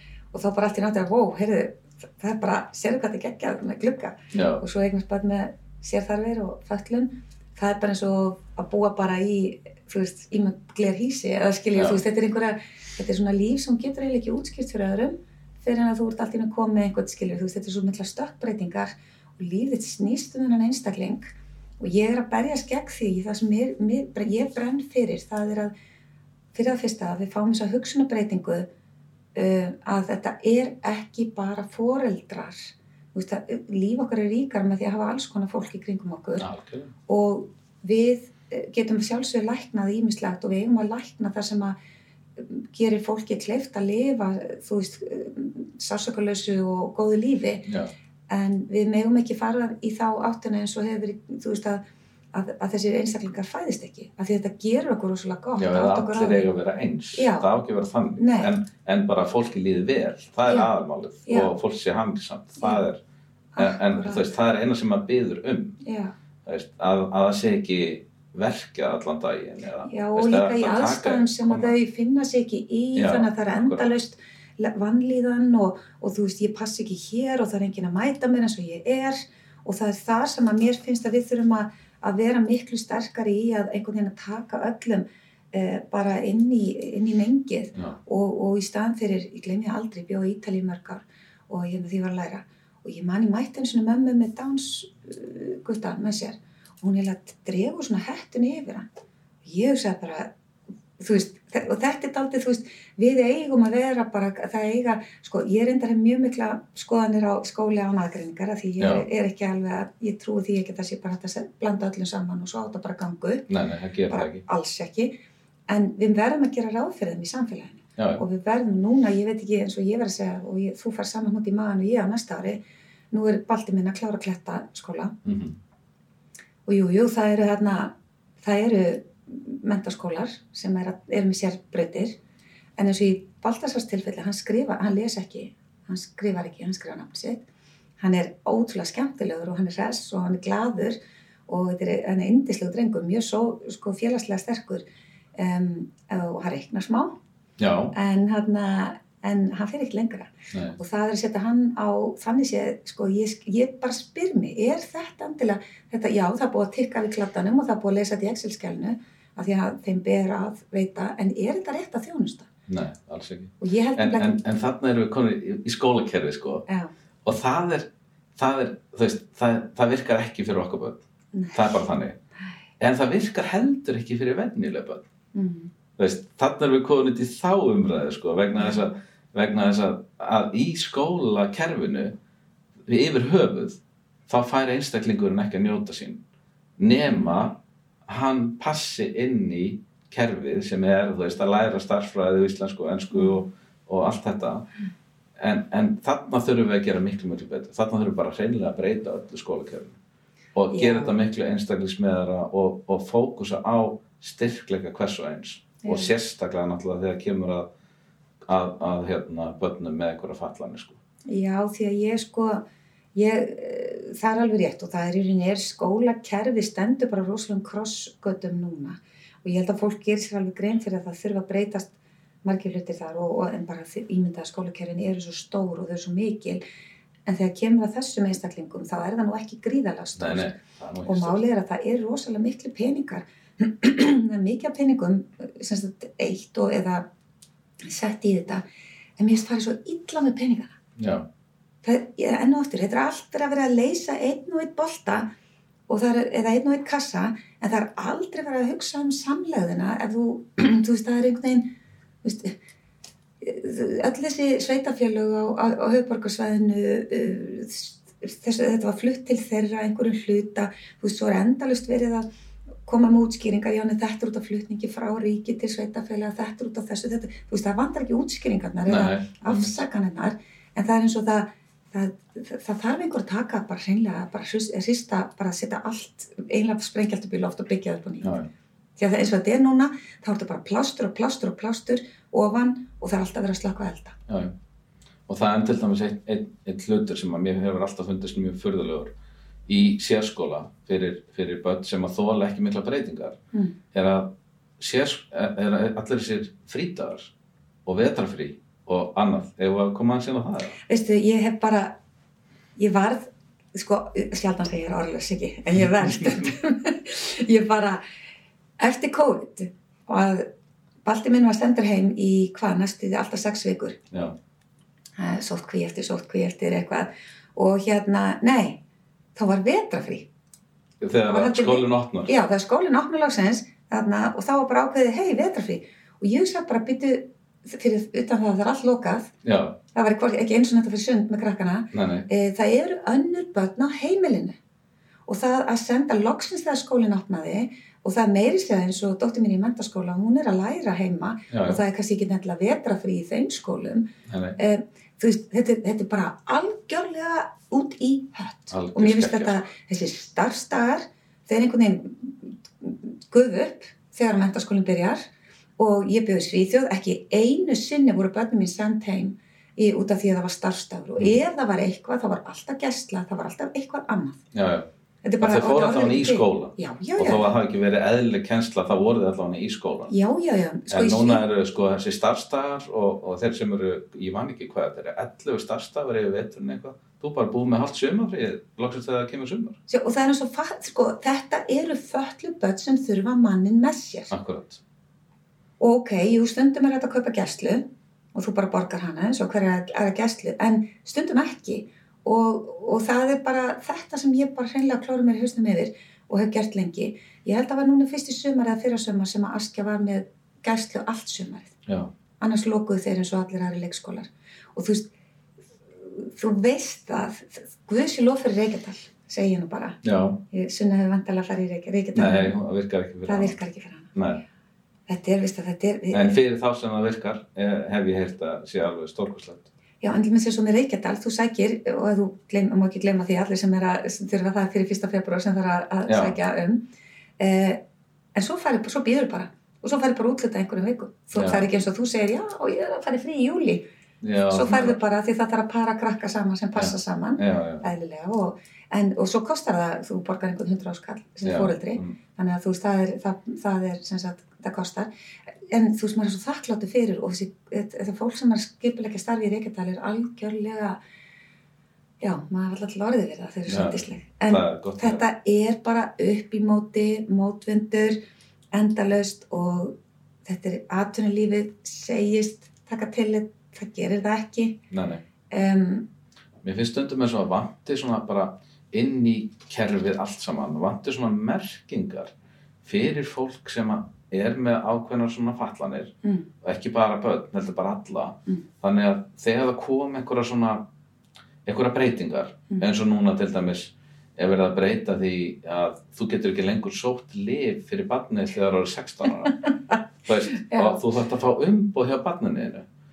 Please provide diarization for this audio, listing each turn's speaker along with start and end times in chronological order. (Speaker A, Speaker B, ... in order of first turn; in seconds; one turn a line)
Speaker A: 0.3-25.7
Speaker B: 4.3-4.6
Speaker B: 11.7-12.0
Speaker A: 26.5-28.7
Speaker A: 29.4-36.5
Speaker B: 36.4-36.9
Speaker A: 37.1-41.7
Speaker A: 42.4-47.7
Speaker B: 47.6-47.9
Speaker A: 48.3-51.8
Speaker A: 52.3-56.5
Speaker B: 55.6-63.0
Speaker A: 57.1-57.5
Speaker A: 58.2-58.5
Speaker A: 61.2-61.5
Speaker A: 63.5-64.2
Speaker B: 63.6-65.8
Speaker A: 65.8-66.1
Speaker B: 66.4-71.7
Speaker A: 69.8-98.8
Speaker B: 73.0-73.9
Speaker A: 99.4-100.3
Speaker A: 101.0-113.5
Speaker B: 108.8-109.0
Speaker B: 113.5-114.4
Speaker A: 114.1-115.1
Speaker A: 115.7-122.6
Speaker B: 118.0-118.2
Speaker A: 123.1-125.1
Speaker B: 125.2-125.5
Speaker A: 126.7-132.2
Speaker A: 132.8-137.4
Speaker A: 138.0-144.8
Speaker A: 145.3-147.2
Speaker B: 147.6-147.9
Speaker A: 147.9-162.5
Speaker B: 150.5-150.8
Speaker B: 162.7-166.7
Speaker A: 163.6-164.4
Speaker B: 167.2-171.0
Speaker A: 171.3-171.8
Speaker B: 171.5-172.2
Speaker B: 172.8-175.0
Speaker A: 175.3-175.7
Speaker B: 176.0-182.1
Speaker B: 182.8-186.2
Speaker B: 186.8-194.7
Speaker A: 193.1-193.4
Speaker B: 195.4-200.0
Speaker B: 200.5-207.7
Speaker A: 200.7-201.1
Speaker A: 205.8-206.1
Speaker B: 208.4-211.0
Speaker A: 211.3-212.6
Speaker A: 213.1-221.9
Speaker A: 222.4-226.6
Speaker A: 227.2-237.1
Speaker B: 230.2-231.4
Speaker A: 237.8-238.6
Speaker A: 239.2-240.8
Speaker B: 240.9-241.3
Speaker A: 241.8-245.3
Speaker A: 245.9-251.7
Speaker A: 252.2-252.5
Speaker A: 253.4-262.2
Speaker A: 262.9-278.4
Speaker B: 268.9-269.8
Speaker B: 278.2-278.5
Speaker A: 279.0-284.2
Speaker B: 284.3-284.5
Speaker B: 285.3-289.1
Speaker B: 289.7-293.4
Speaker B: 293.9-297.3
Speaker B: 297.9-300.8
Speaker A: 300.8-302.0
Speaker A: 302.8-308.0
Speaker B: 305.8-306.5
Speaker A: 308.8-310.5
Speaker A: 311.0-314.0
Speaker B: 314.1-314.4
Speaker A: 315.2-318.8
Speaker A: 319.3-320.3
Speaker B: 321.0-322.3
Speaker A: 321.3-329.3
Speaker B: 329.4-329.8
Speaker A: 329.9-334.6
Speaker B: 331.9-332.3
Speaker A: 335.3-355.2
Speaker B: 341.5-341.8
Speaker B: 344.3-344.6
Speaker B: 348.7-349.7
Speaker A: 355.8-364.4
Speaker B: 364.5-364.9
Speaker A: 365.2-367.5
Speaker B: 365.4-370.1
Speaker A: 370.1-371.4
Speaker B: 370.9-379.8
Speaker A: 379.9-384.3
Speaker B: 384.3-384.8
Speaker A: 385.8-401.8
Speaker A: 402.4-405.1
Speaker A: 406.0-410.0
Speaker B: 410.0-410.4
Speaker A: 410.5-412.6
Speaker B: 412.1-413.6
Speaker A: 413.2-414.1
Speaker B: 414.1-414.4
Speaker A: 415.1-416.4
Speaker B: 416.1-419.7
Speaker A: 420.0-426.8
Speaker B: 426.1-426.4
Speaker A: 427.4-427.8
Speaker A: 428.3-433.9
Speaker B: 431.3-431.6
Speaker B: 434.2-435.0
Speaker A: 434.5-445.1
Speaker B: 436.8-437.9
Speaker B: 441.4-442.2
Speaker A: 445.7-451.0
Speaker A: 452.2-458.2
Speaker B: 453.7-455.2
Speaker A: 458.7-464.8
Speaker B: 464.9-465.2
Speaker A: 465.5-466.1
Speaker B: 466.6-480.9
Speaker A: 476.2-476.5
Speaker B: 481.6-489.6
Speaker B: 490.2-492.9
Speaker A: 490.5-491.0